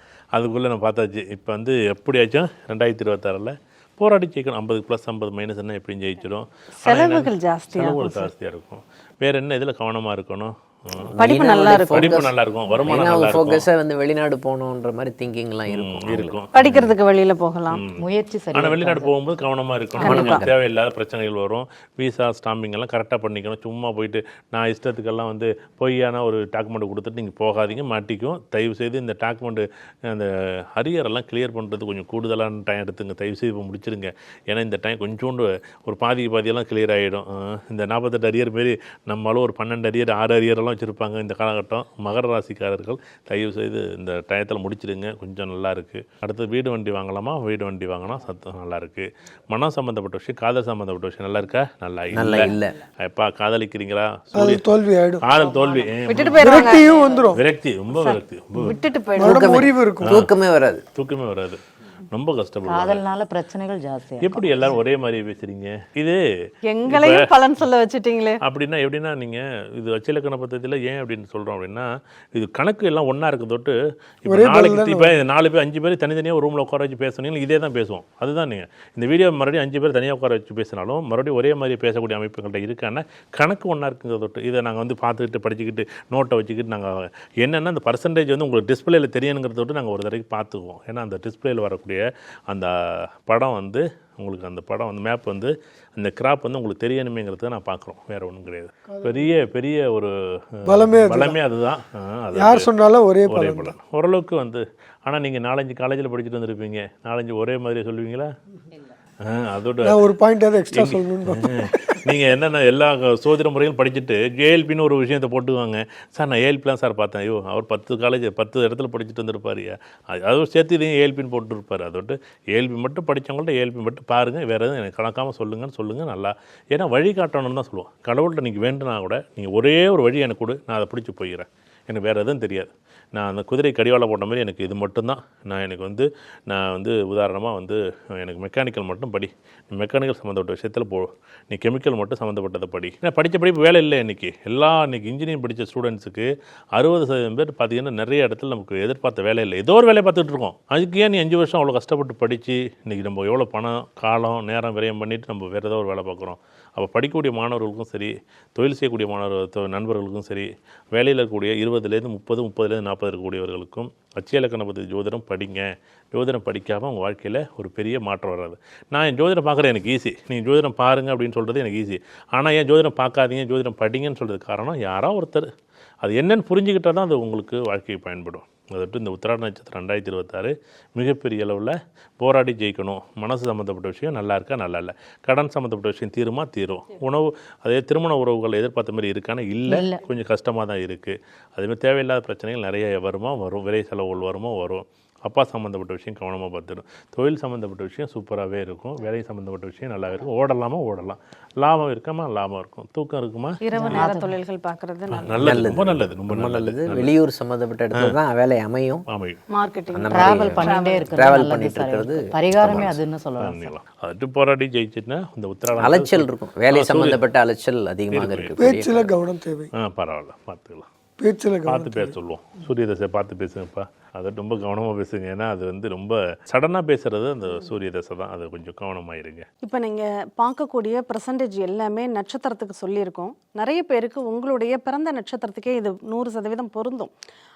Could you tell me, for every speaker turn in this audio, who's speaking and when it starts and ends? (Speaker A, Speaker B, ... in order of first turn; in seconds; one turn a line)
Speaker A: 0.3-11.1
Speaker B: 6.8-8.3
Speaker C: 11.0-16.4
Speaker B: 11.2-12.1
Speaker A: 11.9-13.6
Speaker A: 15.7-16.9
Speaker B: 16.5-17.8
Speaker A: 17.7-18.0
Speaker D: 18.0-19.1
Speaker A: 18.5-54.6
Speaker B: 20.0-20.4
Speaker C: 20.0-20.6
Speaker C: 52.1-52.8
Speaker E: 54.3-55.2
Speaker A: 55.2-56.8
Speaker B: 56.1-56.9
Speaker E: 56.4-57.4
Speaker A: 57.3-58.8
Speaker B: 57.9-59.8
Speaker C: 59.2-60.8
Speaker E: 59.2-60.2
Speaker A: 60.1-60.3
Speaker A: 60.9-63.0
Speaker D: 62.7-64.7
Speaker A: 64.2-66.2
Speaker B: 66.7-68.4
Speaker A: 66.9-67.3
Speaker A: 68.4-102.7
Speaker E: 74.2-75.2
Speaker E: 98.9-99.3
Speaker E: 100.7-101.4
Speaker E: 102.3-103.7
Speaker A: 103.2-108.3
Speaker A: 109.2-110.0
Speaker E: 109.8-112.2
Speaker A: 110.7-175.5
Speaker A: 176.0-204.0
Speaker D: 189.7-190.0
Speaker B: 203.6-205.4
Speaker D: 203.8-204.3
Speaker A: 205.1-207.1
Speaker C: 205.4-209.0
Speaker A: 209.1-209.4
Speaker B: 209.5-211.1
Speaker C: 209.9-212.9
Speaker D: 210.1-213.7
Speaker A: 212.6-217.2
Speaker C: 215.8-219.1
Speaker A: 218.1-218.6
Speaker E: 218.6-219.7
Speaker A: 219.8-220.9
Speaker E: 221.2-222.1
Speaker A: 221.7-229.4
Speaker B: 229.6-237.1